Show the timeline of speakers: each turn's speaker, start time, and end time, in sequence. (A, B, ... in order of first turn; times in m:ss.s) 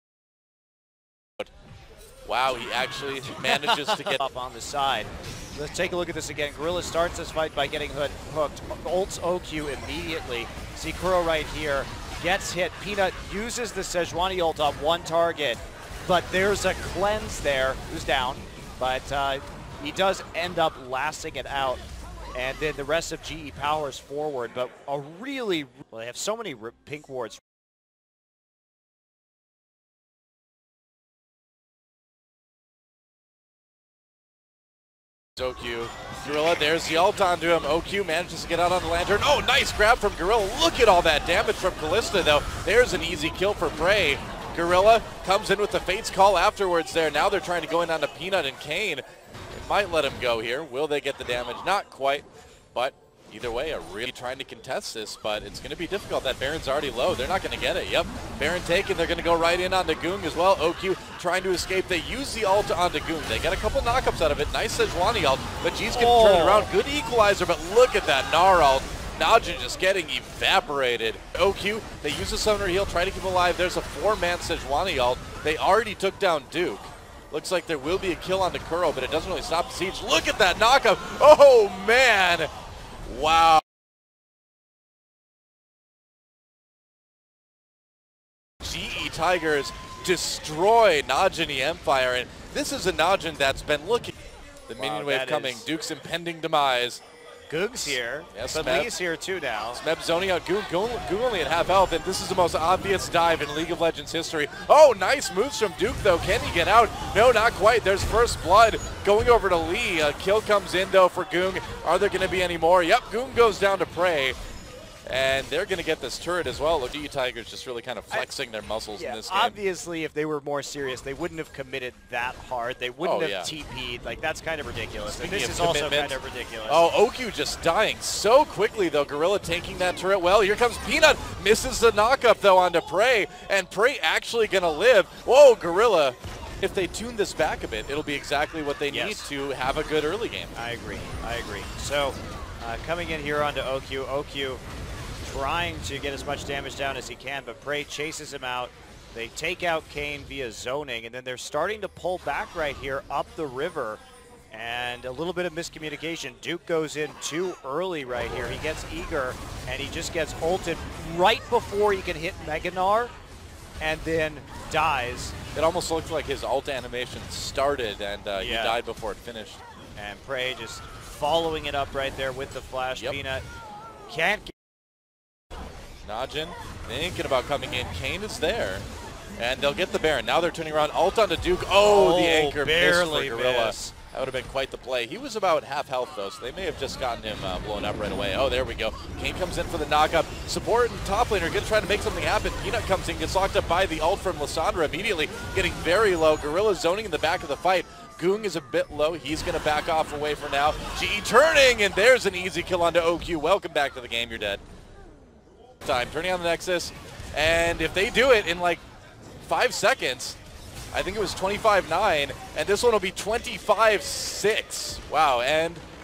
0:02.2-0:04.2 A
0:03.4-0:21.8 B
0:22.3-0:27.4 B
0:35.4-1:22.5 A
1:05.9-1:06.7 B
1:23.0-1:23.6 A
1:28.6-1:34.1 A
1:34.7-1:37.0 A
1:34.8-1:35.7 B
1:37.5-1:39.8 B
1:37.8-1:38.9 A
1:39.7-1:54.4 A
1:55.0-1:59.6 A
1:59.0-2:06.8 B
2:03.0-2:03.5 A
2:05.1-2:20.5 A
2:18.9-2:19.3 B
2:20.5-2:24.6 B
2:25.2-2:43.1 B
2:43.8-2:45.4 B
2:45.5-2:49.6 A
2:48.3-2:48.8 B
2:50.0-2:53.4 B
2:54.1-2:54.5 B
2:56.0-2:58.8 A
2:59.4-3:24.6 A
3:01.8-3:03.9 B
3:25.8-3:28.8 A
3:29.4-3:30.4 A
3:30.9-3:35.8 A